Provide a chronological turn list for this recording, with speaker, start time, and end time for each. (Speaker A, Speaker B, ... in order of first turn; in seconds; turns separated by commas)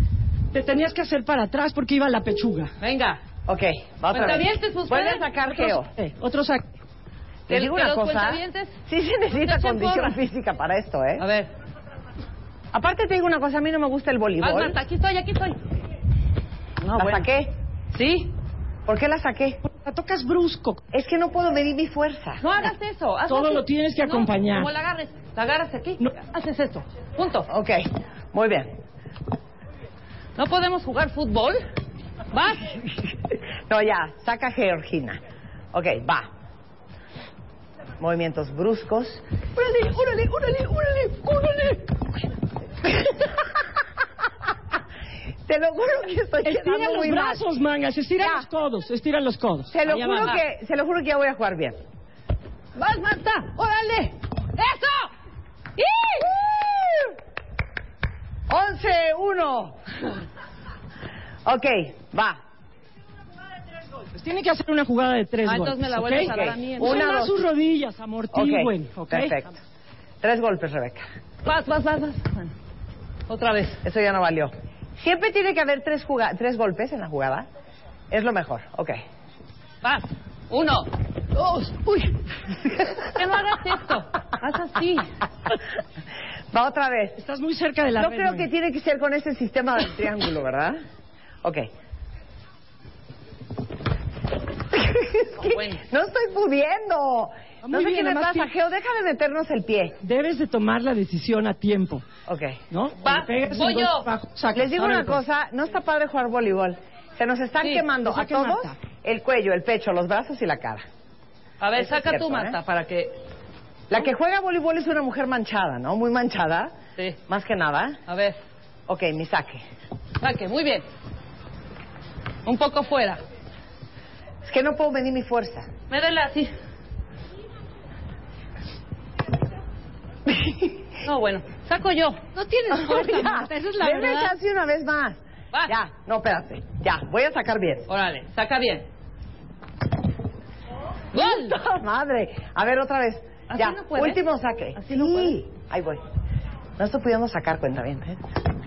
Speaker A: 0.5-2.7, Speaker B: 2.8-3.2, Speaker C: 3.5-5.9, Speaker B: 4.1-5.3, Speaker A: 5.5-6.7, Speaker B: 7.5-10.2, Speaker C: 7.5-11.2, Speaker B: 11.2-11.5, Speaker C: 12.7-14.7, Speaker B: 14.4-15.6, Speaker B: 16.8-17.3, Speaker C: 17.0-17.5, Speaker B: 17.9-18.3, Speaker C: 18.9-19.6, Speaker A: 19.6-20.8, Speaker C: 20.9-22.4, Speaker B: 22.4-27.5, Speaker A: 23.3-24.7, Speaker C: 27.5-28.7, Speaker B: 30.4-31.6, Speaker B: 32.3-32.8, Speaker C: 33.7-35.2, Speaker C: 35.7-36.3, Speaker C: 38.0-39.2, Speaker A: 39.6-41.8, Speaker C: 45.5-47.4, Speaker A: 46.4-50.4, Speaker C: 49.7-51.8, Speaker B: 52.8-55.1, Speaker B: 55.8-56.4, Speaker C: 58.5-59.8, Speaker C: 61.5-62.4, Speaker A: 64.1-69.4, Speaker B: 65.5-67.2, Speaker C: 66.2-67.3, Speaker C: 68.3-69.6, Speaker C: 70.2-71.0, Speaker B: 71.5-72.5, Speaker B: 73.3-73.8, Speaker C: 73.8-77.5, Speaker C: 78.1-78.9, Speaker B: 79.8-80.9, Speaker B: 83.2-85.1, Speaker C: 86.5-87.2, Speaker A: 87.2-88.5, Speaker C: 88.0-90.8, Speaker C: 94.7-100.0, Speaker B: 95.4-95.8, Speaker A: 97.6-98.5, Speaker A: 100.0-102.0, Speaker C: 102.3-102.6, Speaker A: 102.7-105.2, Speaker B: 103.0-104.1, Speaker C: 104.5-110.8, Speaker B: 107.6-107.9, Speaker A: 108.0-108.8, Speaker B: 111.6-113.2, Speaker C: 111.8-112.5, Speaker C: 113.9-116.7, Speaker C: 117.3-118.0, Speaker B: 118.1-118.4, Speaker C: 118.9-119.6, Speaker B: 120.2-120.8, Speaker B: 122.5-123.2, Speaker C: 124.5-125.7, Speaker B: 125.9-126.5, Speaker B: 131.0-132.3, Speaker A: 132.3-134.3, Speaker C: 132.9-135.2, Speaker C: 135.7-137.8, Speaker B: 137.9-138.9, Speaker B: 141.1-141.6, Speaker C: 141.2-146.0, Speaker B: 143.5-144.2, Speaker B: 144.8-145.4, Speaker C: 146.8-148.2